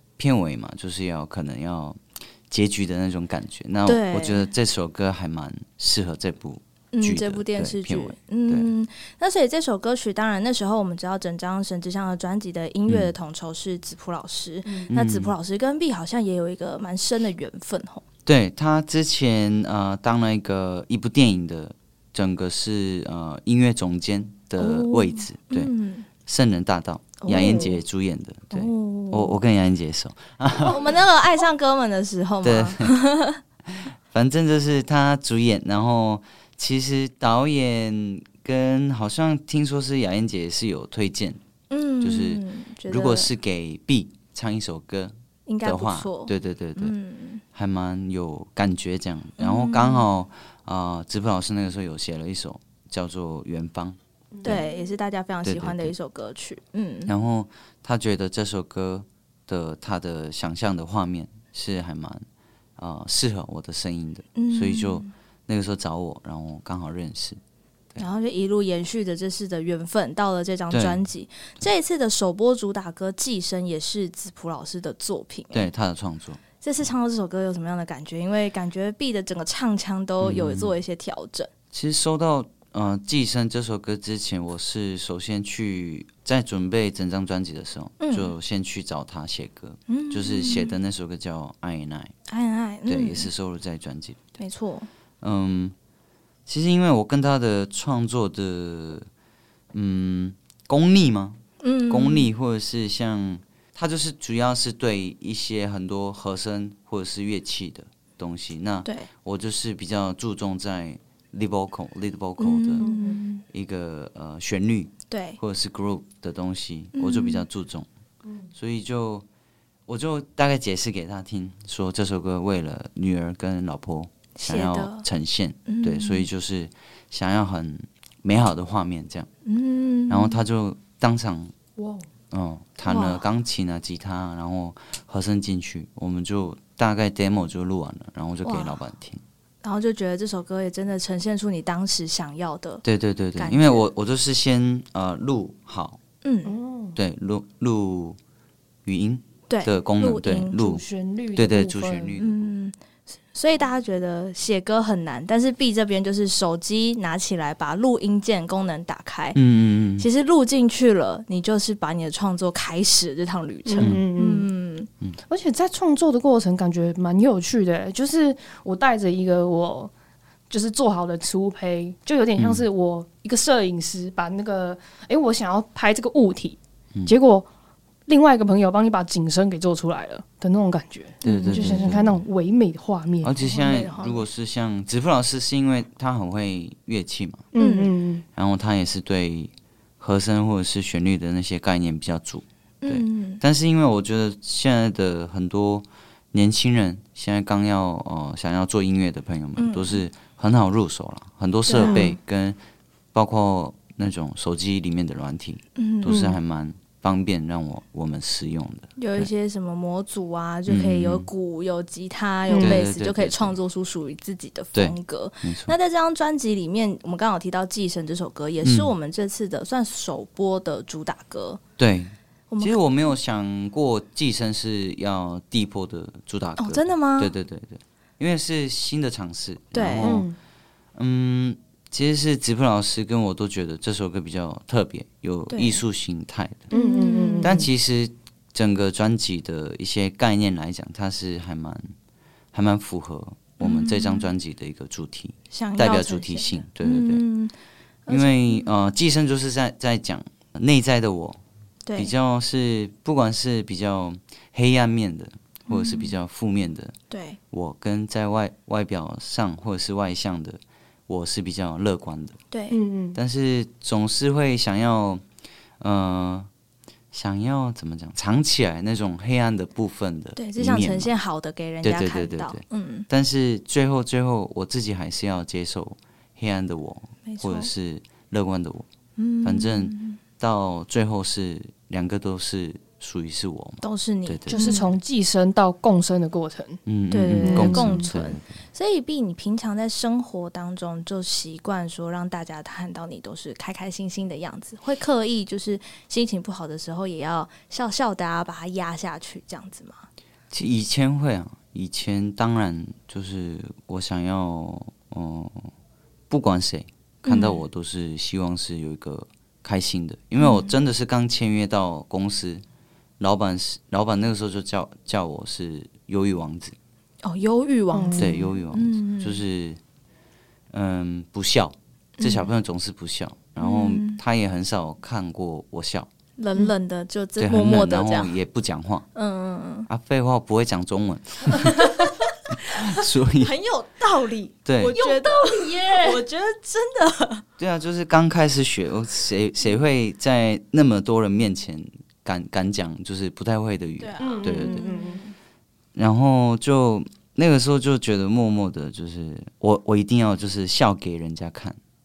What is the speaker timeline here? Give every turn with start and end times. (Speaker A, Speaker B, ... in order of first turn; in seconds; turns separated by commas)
Speaker A: 0.2-8.7, Speaker B: 3.9-4.5, Speaker B: 6.9-18.0, Speaker A: 12.9-13.1, Speaker A: 14.9-15.3, Speaker A: 18.2-25.7, Speaker B: 24.6-26.1, Speaker A: 26.2-30.8, Speaker B: 27.2-27.8, Speaker C: 27.3-27.7, Speaker B: 28.5-29.4, Speaker B: 30.7-33.4, Speaker A: 32.4-32.9, Speaker A: 33.7-41.4, Speaker B: 41.7-43.3, Speaker A: 42.0-46.9, Speaker B: 45.5-47.4, Speaker A: 47.5-54.6, Speaker B: 49.4-50.0, Speaker C: 54.3-54.8, Speaker B: 54.4-57.1, Speaker A: 55.4-55.9, Speaker A: 57.1-62.2, Speaker A: 62.8-67.4, Speaker B: 64.3-65.1, Speaker B: 68.0-75.7, Speaker A: 70.7-71.0, Speaker A: 75.5-76.4, Speaker B: 76.6-81.5, Speaker A: 80.2-80.7, Speaker A: 81.7-92.1, Speaker B: 88.0-88.3, Speaker B: 89.9-90.8, Speaker B: 92.3-93.3, Speaker A: 92.9-94.4, Speaker B: 94.4-94.9, Speaker A: 95.2-95.7, Speaker A: 96.5-99.1, Speaker A: 99.7-112.9, Speaker B: 101.6-102.3, Speaker B: 112.4-113.4, Speaker C: 112.8-113.2, Speaker A: 113.5-117.9, Speaker B: 115.1-115.4, Speaker B: 116.9-117.4, Speaker A: 118.5-119.2, Speaker A: 119.9-129.3, Speaker B: 124.3-125.0, Speaker B: 125.7-126.3, Speaker B: 129.4-130.4, Speaker A: 130.1-131.5, Speaker C: 131.8-132.1, Speaker A: 132.3-139.2, Speaker B: 132.9-133.2, Speaker B: 138.4-138.8, Speaker B: 139.6-142.8, Speaker A: 142.8-146.0, Speaker B: 143.3-143.9, Speaker B: 146.2-146.5, Speaker C: 146.4-147.0, Speaker A: 146.9-148.2, Speaker A: 148.8-150.8, Speaker B: 149.5-150.6, Speaker C: 150.5-152.2, Speaker A: 151.3-152.5, Speaker B: 152.2-152.8, Speaker B: 153.3-159.4, Speaker A: 159.3-160.1, Speaker B: 160.0-164.9, Speaker C: 163.7-164.5, Speaker A: 163.8-164.0, Speaker C: 165.3-169.9, Speaker C: 170.5-177.5, Speaker A: 172.4-172.7, Speaker C: 178.1-183.4, Speaker B: 181.2-182.0, Speaker A: 181.2-182.2, Speaker A: 183.2-187.5, Speaker B: 183.4-184.3, Speaker C: 187.5-188.2, Speaker B: 187.6-187.9, Speaker A: 188.3-202.6, Speaker B: 192.8-193.4, Speaker B: 199.6-200.0, Speaker B: 201.7-202.1, Speaker C: 201.7-202.1, Speaker A: 203.1-209.3, Speaker B: 205.8-206.2, Speaker C: 206.1-206.4, Speaker B: 209.0-221.6, Speaker A: 210.7-211.3, Speaker C: 212.5-212.8, Speaker A: 212.5-213.6, Speaker A: 214.7-215.7, Speaker A: 218.6-218.9, Speaker A: 221.8-230.3, Speaker B: 222.5-222.8, Speaker B: 226.6-227.3, Speaker B: 229.7-230.2, Speaker C: 230.0-230.3, Speaker A: 230.9-236.7, Speaker B: 235.5-235.8, Speaker B: 236.7-237.6, Speaker C: 236.7-237.7, Speaker A: 237.4-241.9, Speaker A: 242.5-247.2, Speaker B: 243.6-244.3, Speaker B: 245.5-247.5, Speaker B: 248.1-248.7, Speaker A: 248.1-251.4, Speaker B: 251.8-252.1, Speaker A: 251.9-256.9, Speaker B: 255.7-256.1, Speaker B: 257.1-257.4, Speaker A: 257.5-262.4, Speaker B: 262.5-262.8, Speaker C: 262.7-263.2, Speaker A: 263.1-265.2, Speaker A: 265.8-266.5, Speaker A: 267.1-271.1, Speaker B: 270.4-273.1, Speaker A: 271.8-278.9, Speaker B: 277.2-277.7, Speaker B: 279.2-280.2, Speaker A: 279.4-284.8, Speaker B: 283.8-284.9, Speaker C: 284.5-286.8, Speaker A: 286.9-288.5, Speaker B: 287.1-300.1, Speaker C: 287.4-288.0, Speaker A: 300.5-305.7, Speaker A: 306.3-312.6, Speaker B: 307.2-307.6, Speaker B: 310.4-310.7, Speaker A: 313.2-316.8, Speaker B: 317.2-319.4, Speaker C: 317.9-318.5, Speaker A: 318.2-319.8, Speaker A: 320.7-326.1, Speaker B: 322.2-322.5, Speaker B: 323.6-324.2, Speaker B: 326.4-328.3, Speaker A: 327.4-329.1, Speaker B: 329.1-329.9, Speaker A: 329.9-333.5, Speaker B: 333.4-337.4, Speaker A: 334.6-334.9, Speaker C: 334.9-336.2, Speaker A: 337.6-344.9, Speaker B: 344.0-345.3, Speaker C: 344.2-345.2, Speaker A: 345.9-351.8